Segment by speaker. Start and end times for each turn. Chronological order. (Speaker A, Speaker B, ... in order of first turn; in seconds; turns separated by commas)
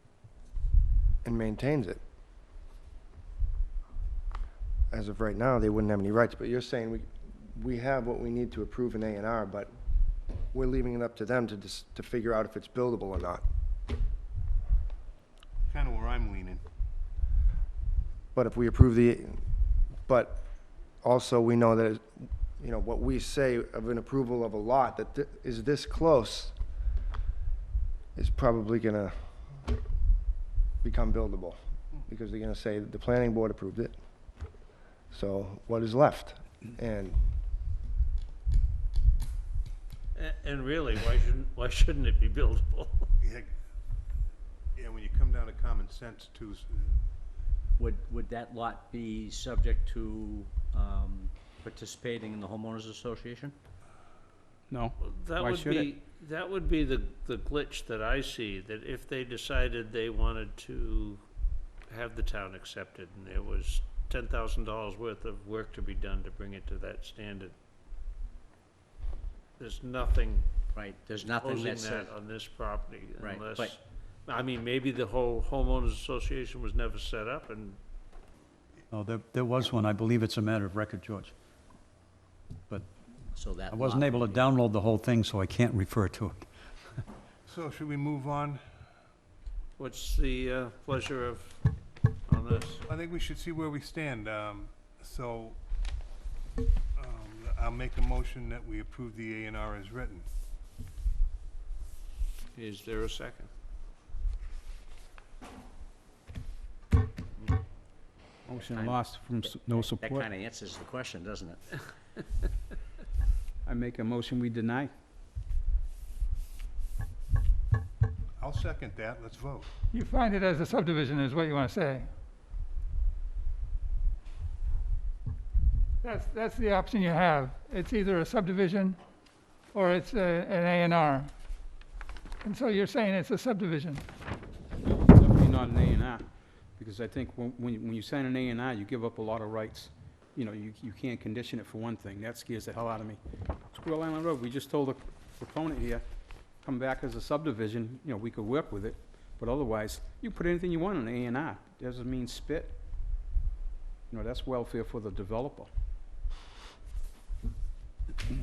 Speaker A: 1.2-2.0, Speaker A: 4.9-9.7, Speaker A: 10.5-13.4, Speaker B: 15.6-16.6, Speaker A: 18.3-19.4, Speaker A: 20.1-20.4, Speaker A: 21.0-26.5, Speaker A: 28.1-29.1, Speaker A: 30.8-33.9, Speaker A: 35.1-37.2, Speaker C: 40.1-43.1, Speaker B: 43.2-43.5, Speaker B: 44.8-47.0, Speaker D: 47.8-53.6, Speaker E: 54.7-55.9, Speaker C: 55.0-61.2, Speaker C: 61.9-67.5, Speaker C: 69.6-70.5, Speaker D: 70.7-72.1, Speaker C: 71.4-77.8, Speaker D: 73.2-73.7, Speaker F: 78.9-81.3, Speaker D: 83.3-84.5, Speaker F: 83.7-86.5, Speaker B: 87.5-88.6, Speaker C: 89.8-91.6, Speaker C: 92.3-92.8, Speaker B: 92.9-95.6, Speaker B: 97.0-100.2, Speaker C: 102.5-103.5, Speaker D: 108.5-111.7, Speaker E: 108.5-110.2, Speaker E: 113.7-114.9, Speaker B: 118.4-119.7, Speaker G: 119.9-122.1, Speaker G: 126.0-129.0, Speaker G: 129.7-131.3, Speaker G: 132.4-134.0, Speaker E: 134.9-136.2, Speaker E: 136.8-146.0, Speaker E: 146.6-152.8, Speaker E: 154.1-155.7